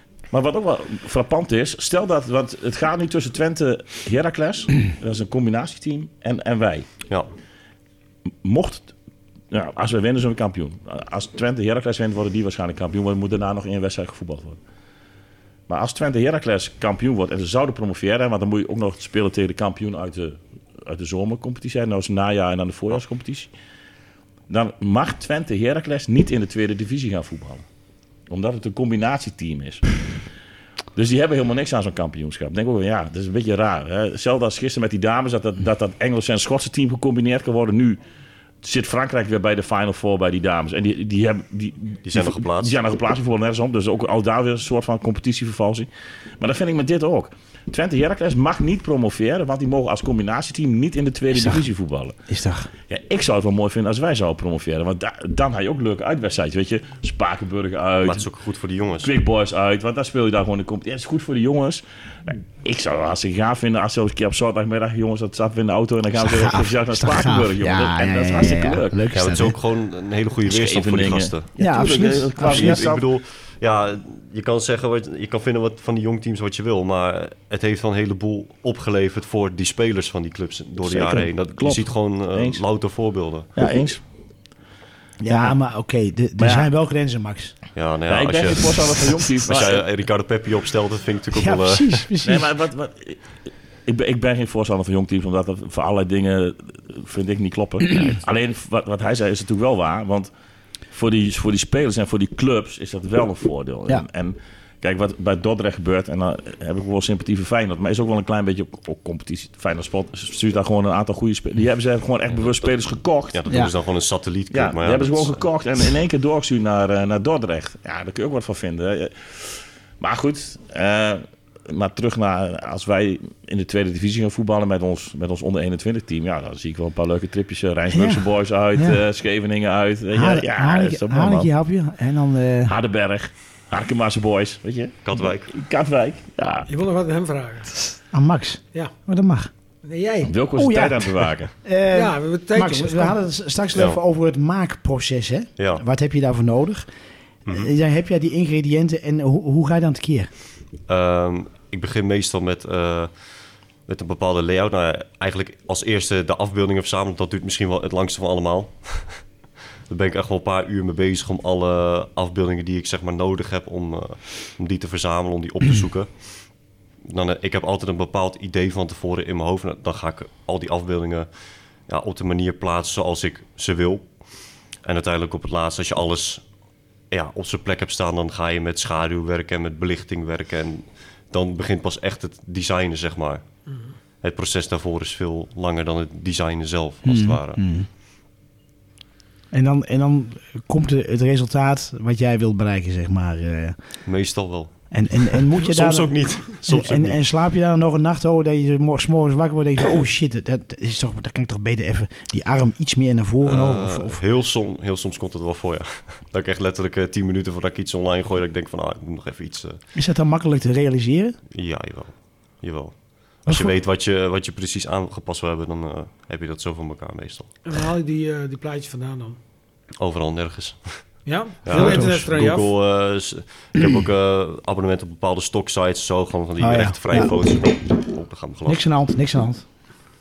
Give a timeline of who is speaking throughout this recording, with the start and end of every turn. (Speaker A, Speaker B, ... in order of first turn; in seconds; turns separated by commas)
Speaker A: 0.3-6.9, Speaker A: 8.4-8.9, Speaker A: 9.5-14.6, Speaker A: 15.7-23.5, Speaker A: 24.5-27.7, Speaker A: 28.3-30.1, Speaker A: 30.9-38.0, Speaker A: 38.6-52.2, Speaker B: 42.0-42.8, Speaker C: 51.4-51.6, Speaker C: 52.3-52.7, Speaker A: 52.9-58.3, Speaker B: 58.0-59.1, Speaker A: 59.0-69.0, Speaker C: 66.2-69.6, Speaker B: 69.1-71.5, Speaker A: 70.5-73.0, Speaker C: 71.6-72.8, Speaker B: 72.4-83.5, Speaker A: 80.8-82.6, Speaker A: 83.5-84.0, Speaker C: 85.2-87.6, Speaker A: 86.4-86.7, Speaker B: 87.8-92.1, Speaker A: 88.1-89.9, Speaker C: 91.3-92.5, Speaker A: 92.2-100.3, Speaker A: 100.9-113.5, Speaker B: 112.3-112.7, Speaker B: 113.3-115.5, Speaker A: 114.5-131.5, Speaker C: 127.9-129.0, Speaker C: 130.1-132.7, Speaker A: 132.7-136.7, Speaker B: 135.0-135.5, Speaker D: 136.7-138.0, Speaker C: 138.1-139.5, Speaker D: 139.8-140.3, Speaker A: 140.2-141.5, Speaker C: 140.6-146.9, Speaker D: 141.9-143.2, Speaker B: 143.7-144.0, Speaker B: 145.6-145.8, Speaker B: 147.5-147.7, Speaker C: 147.5-150.3, Speaker B: 150.9-153.3, Speaker B: 153.9-159.3, Speaker B: 159.9-166.4, Speaker B: 167.0-171.3, Speaker B: 171.9-174.2, Speaker B: 174.8-176.5, Speaker B: 177.1-183.4, Speaker B: 184.2-187.6, Speaker C: 187.0-187.9, Speaker C: 189.5-193.8, Speaker B: 194.1-197.2, Speaker C: 194.9-204.2, Speaker B: 203.4-209.8, Speaker C: 209.9-211.4, Speaker B: 211.5-217.6, Speaker C: 213.5-213.7, Speaker D: 217.7-219.4, Speaker B: 220.0-228.9, Speaker D: 221.2-222.7, Speaker C: 221.7-222.3, Speaker C: 226.6-227.4, Speaker C: 228.7-229.6